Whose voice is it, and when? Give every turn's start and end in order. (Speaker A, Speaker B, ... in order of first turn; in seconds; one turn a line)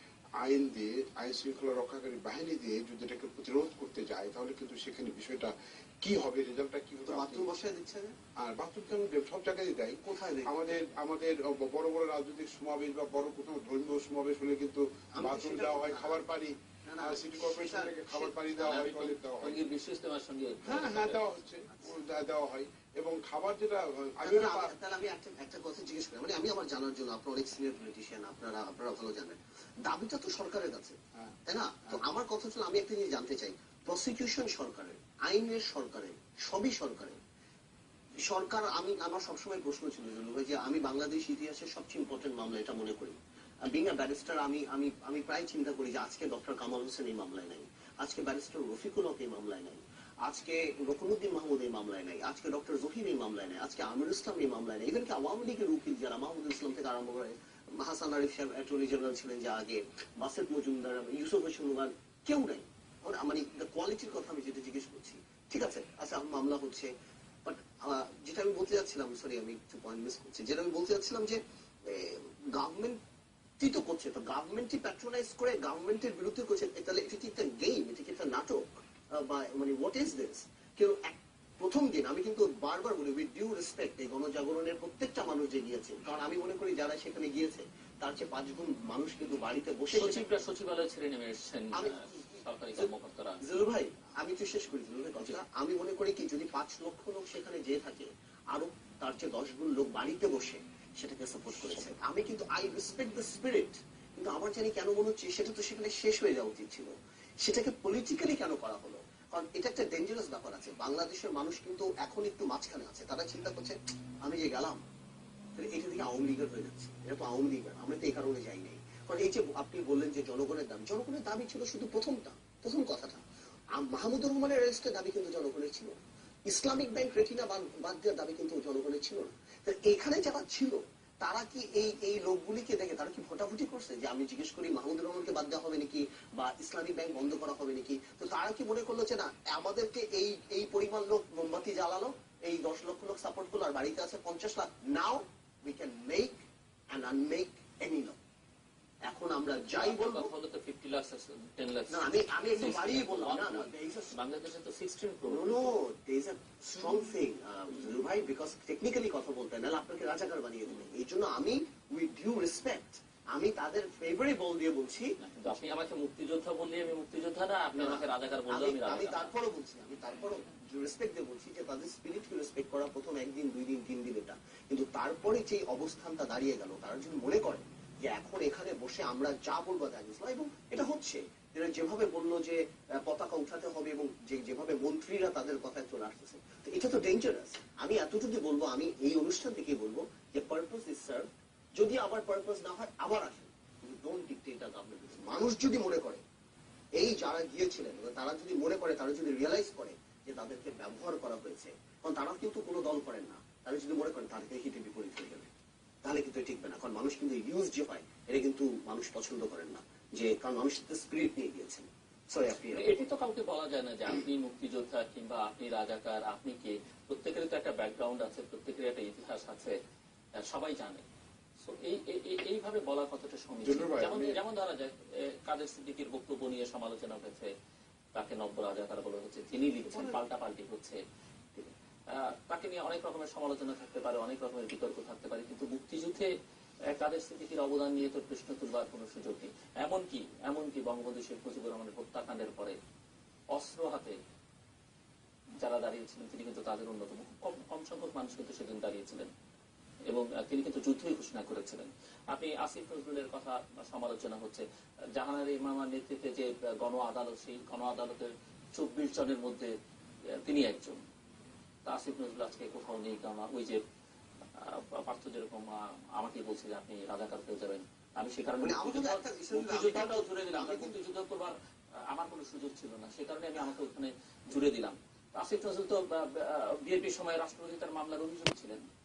Speaker A: 0.4-7.5
Speaker B: 7.1-8.2
Speaker A: 8.4-19.6
Speaker B: 10.0-10.6
Speaker B: 15.2-16.2
Speaker B: 16.9-18.4
Speaker C: 18.6-21.3
Speaker A: 20.6-24.7
Speaker B: 21.7-22.0
Speaker B: 24.2-37.2
Speaker A: 31.1-32.0
Speaker B: 38.2-66.9
Speaker B: 67.5-73.0
Speaker B: 73.6-90.3
Speaker C: 89.9-93.4
Speaker B: 91.7-92.9
Speaker B: 93.4-106.9
Speaker B: 107.4-114.8
Speaker B: 115.6-123.2
Speaker B: 123.8-126.0
Speaker B: 126.5-146.3
Speaker B: 146.9-148.2
Speaker B: 149.1-150.3
Speaker C: 149.6-155.7
Speaker B: 151.9-154.2
Speaker B: 155.3-165.1
Speaker C: 165.2-169.3
Speaker B: 167.8-196.2
Speaker B: 197.0-205.5
Speaker B: 206.0-213.0
Speaker C: 212.7-219.8
Speaker C: 220.4-221.0
Speaker C: 221.6-227.5
Speaker A: 223.6-224.4
Speaker C: 228.2-231.0
Speaker B: 229.9-230.2
Speaker C: 231.6-236.3
Speaker C: 236.9-242.8
Speaker C: 243.5-244.2
Speaker C: 245.6-249.3
Speaker C: 250.1-254.7
Speaker C: 255.2-259.7
Speaker C: 260.3-261.0
Speaker C: 261.9-263.8
Speaker C: 264.6-271.6
Speaker B: 268.6-271.0
Speaker C: 272.1-278.8